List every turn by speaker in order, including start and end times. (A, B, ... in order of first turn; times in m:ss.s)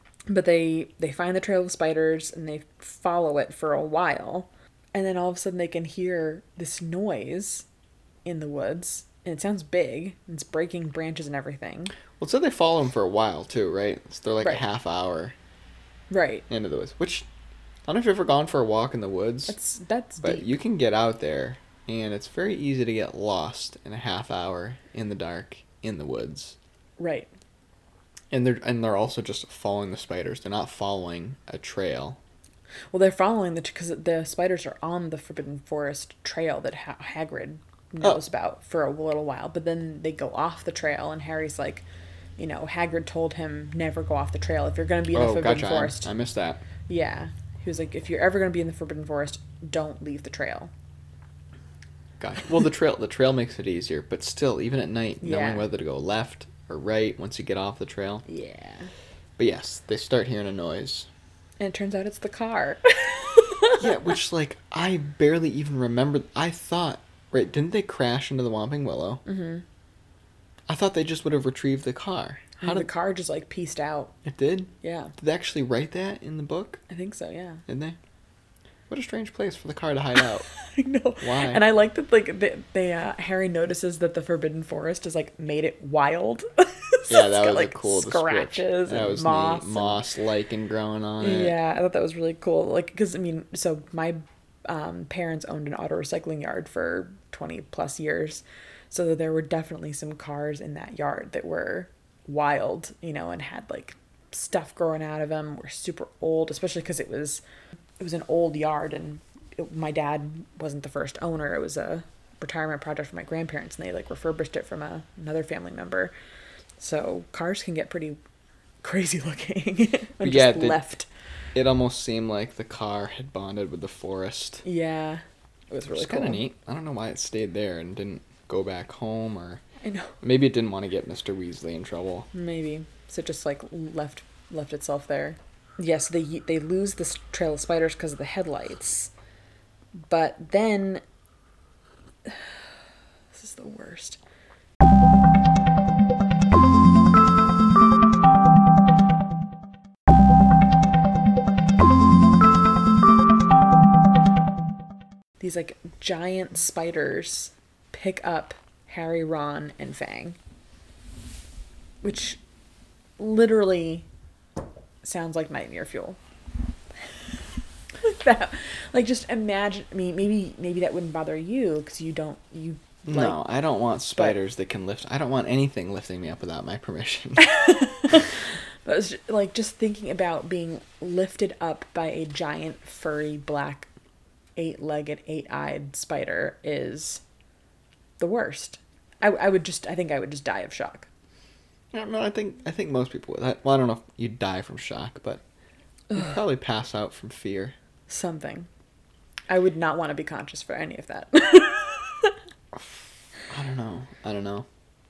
0:00.3-0:07.6 A
0:08.2-0:11.9 A
0:12.2-0:15.4 B
0:16.1-0:16.4 A
0:16.5-0:17.3 B
0:17.9-0:19.6 B
0:19.5-0:20.5 A
0:20.2-0:26.6 B
0:27.0-0:27.3 A
0:28.3-0:32.2 B
0:32.9-0:41.8 A
0:42.4-0:46.1 A
0:45.1-0:46.6 B
0:46.9-0:50.7 A
0:52.2-0:58.2 B
0:55.2-0:55.7 A
0:58.3-0:58.9 A
0:59.4-1:01.1 B
1:01.6-1:03.9 A
1:03.8-1:09.2 B
1:09.2-1:09.6 A
1:10.7-1:12.9 B
1:12.6-1:14.2 A
1:14.2-1:16.8 B
1:14.8-1:15.1 A
1:16.9-1:17.6 A
1:17.7-1:18.0 B
1:18.9-1:20.5 B
1:20.2-1:30.0 A
1:21.2-1:21.6 B
1:27.1-1:31.6 B
1:31.2-1:47.4 A
1:48.0-1:56.1 A
1:56.8-1:58.2 A
1:58.8-2:01.1 A
2:00.2-2:00.8 B
2:01.6-2:04.6 B
2:04.6-2:06.4 A
2:05.9-2:09.6 B
2:09.8-2:10.1 A
2:10.2-2:12.3 B
2:12.3-2:19.1 A
2:20.1-2:21.0 A
2:22.2-2:22.7 A
2:23.3-2:24.2 A
2:35.4-2:40.4 A
2:42.0-2:42.4 A
2:43.2-2:44.1 A
2:45.0-2:46.2 A
2:48.0-2:53.4 A
2:53.0-2:58.3 B
2:57.4-3:03.9 A
3:04.6-3:07.2 A
3:08.2-3:11.1 A
3:11.9-3:15.4 B
3:16.1-3:17.8 B
3:18.1-3:18.7 A
3:19.5-3:22.4 A
3:22.8-3:24.6 B